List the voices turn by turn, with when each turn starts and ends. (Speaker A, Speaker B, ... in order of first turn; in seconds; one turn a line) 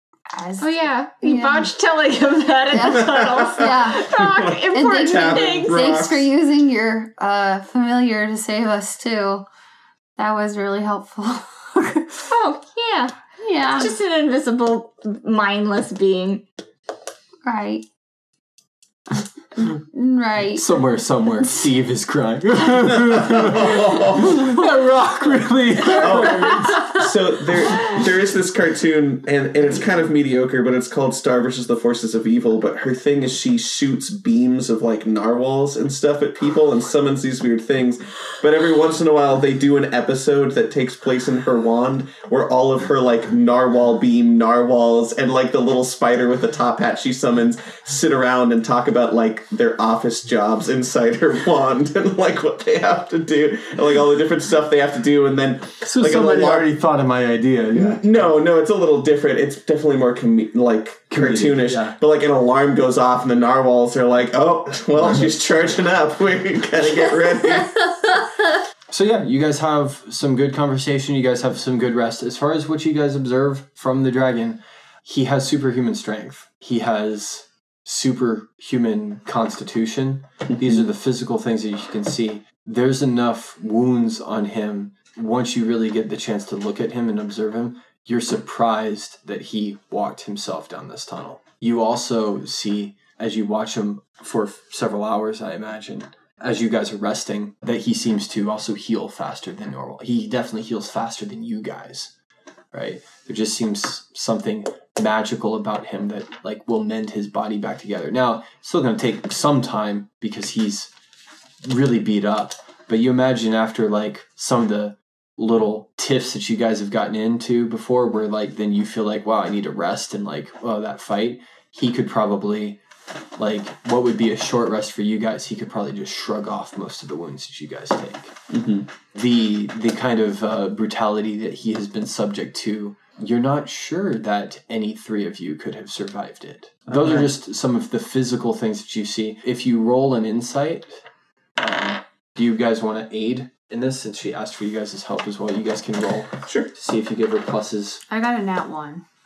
Speaker A: 0.3-1.7
Speaker B: 0.6-5.9
Speaker A: 2.7-4.2
Speaker C: 4.1-6.3
Speaker A: 4.7-9.4
Speaker A: 10.2-12.3
Speaker B: 12.3-13.1
Speaker A: 13.4-13.9
Speaker B: 13.7-16.4
Speaker A: 17.4-17.9
Speaker A: 19.7-20.8
Speaker D: 20.5-26.8
Speaker C: 23.1-24.6
Speaker C: 25.9-56.7
Speaker A: 26.2-27.0
Speaker D: 55.8-58.1
Speaker C: 57.8-68.0
Speaker D: 61.1-62.0
Speaker D: 68.9-102.1
Speaker D: 102.7-110.9
Speaker D: 111.6-122.8
Speaker D: 123.4-128.3
Speaker C: 128.5-128.9
Speaker D: 129.1-140.9
Speaker C: 136.9-137.3
Speaker D: 141.6-148.0
Speaker C: 146.4-146.7
Speaker A: 148.1-149.0